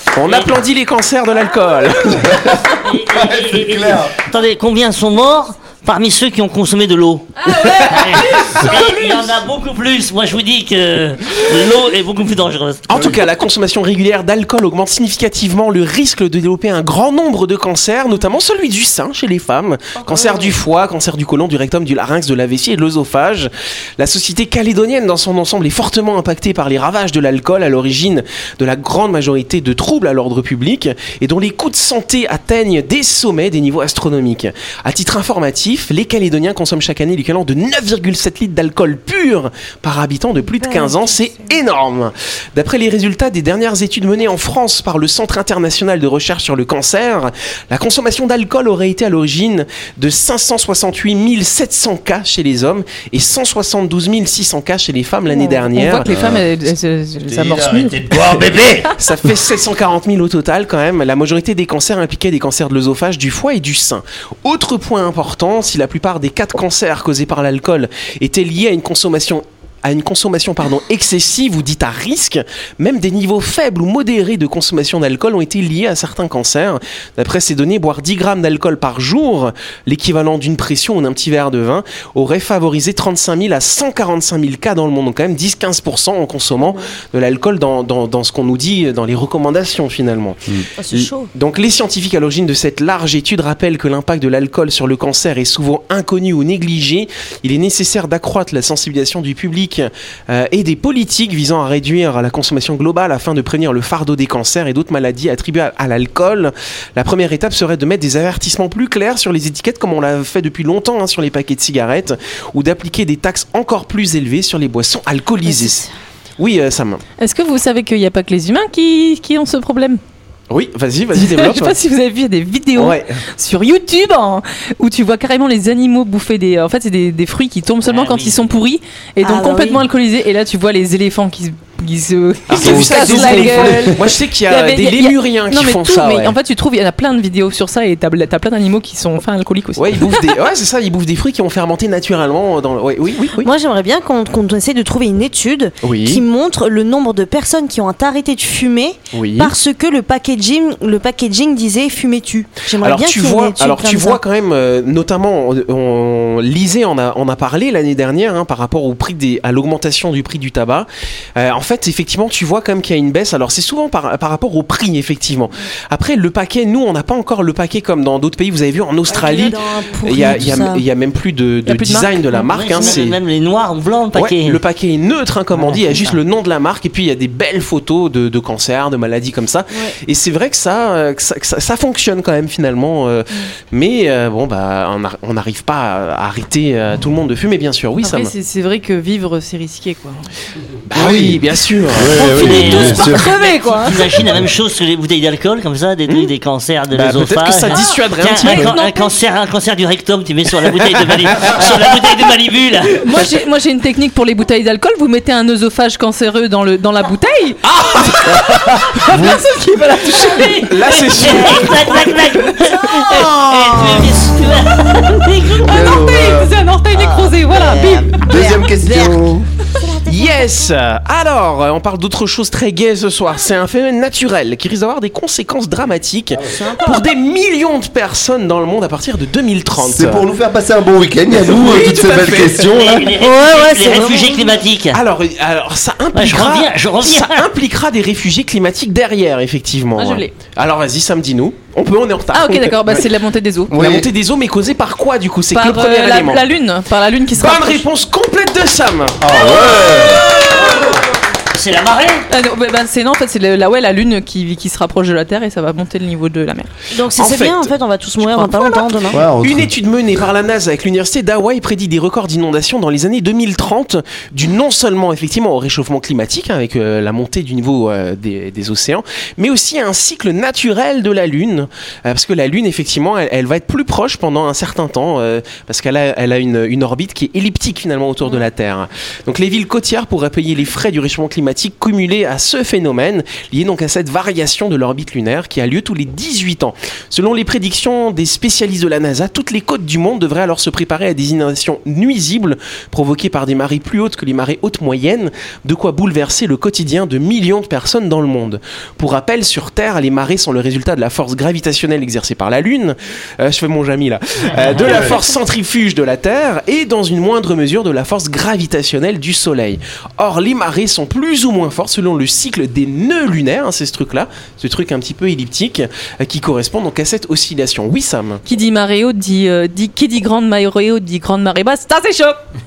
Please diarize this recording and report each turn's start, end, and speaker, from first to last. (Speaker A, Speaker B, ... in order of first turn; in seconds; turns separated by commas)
Speaker A: 0.1-2.4, Speaker B: 0.2-0.6, Speaker C: 2.2-4.1, Speaker B: 2.8-7.3, Speaker D: 7.4-9.3, Speaker B: 7.8-12.8, Speaker A: 12.9-56.1, Speaker C: 12.9-13.2, Speaker E: 20.1-20.5, Speaker E: 40.5-41.6, Speaker D: 55.3-58.4, Speaker C: 56.1-56.4, Speaker C: 57.2-58.9, Speaker A: 59.0-115.9, Speaker E: 86.6-86.9, Speaker E: 90.8-91.3, Speaker E: 115.5-115.9, Speaker A: 116.4-117.0, Speaker D: 117.2-120.0, Speaker A: 120.5-121.8, Speaker D: 121.1-140.3, Speaker A: 122.8-123.2, Speaker B: 127.8-128.4, Speaker E: 129.2-129.8, Speaker A: 132.5-136.3, Speaker C: 132.5-134.0, Speaker A: 139.8-143.5, Speaker E: 143.4-154.2, Speaker A: 145.8-146.2, Speaker A: 149.1-149.5, Speaker A: 152.8-173.2, Speaker E: 169.1-170.8, Speaker D: 171.7-172.8, Speaker B: 172.5-174.6, Speaker A: 174.1-188.3, Speaker B: 175.7-176.1, Speaker D: 188.0-190.3, Speaker A: 190.9-192.2, Speaker C: 190.9-191.4, Speaker C: 191.9-193.3, Speaker D: 192.1-194.1, Speaker B: 192.2-203.1, Speaker A: 196.9-198.7, Speaker D: 198.3-199.1, Speaker D: 203.0-210.7, Speaker A: 207.6-208.4, Speaker C: 208.3-209.3, Speaker B: 210.2-215.8, Speaker A: 210.6-212.1, Speaker E: 213.1-214.2, Speaker D: 215.5-218.3, Speaker C: 215.6-216.5, Speaker E: 216.9-219.2, Speaker C: 218.2-219.5, Speaker E: 219.8-220.6, Speaker A: 220.1-230.2, Speaker C: 226.3-226.6, Speaker E: 226.5-227.0, Speaker C: 229.8-233.0, Speaker A: 231.3-233.1, Speaker B: 232.7-235.0, Speaker E: 233.1-234.6, Speaker A: 234.9-243.0, Speaker B: 236.1-237.5, Speaker D: 239.9-240.3, Speaker D: 242.3-243.7, Speaker C: 243.7-244.1, Speaker A: 243.7-246.5, Speaker D: 245.5-247.8, Speaker A: 247.3-249.4, Speaker C: 249.2-250.7, Speaker B: 250.6-250.8, Speaker B: 251.5-252.2, Speaker D: 252.3-256.7, Speaker E: 256.9-259.2, Speaker A: 257.1-258.7, Speaker C: 259.1-259.7, Speaker A: 259.4-318.4, Speaker B: 304.5-304.9, Speaker C: 304.8-305.2, Speaker D: 318.4-322.4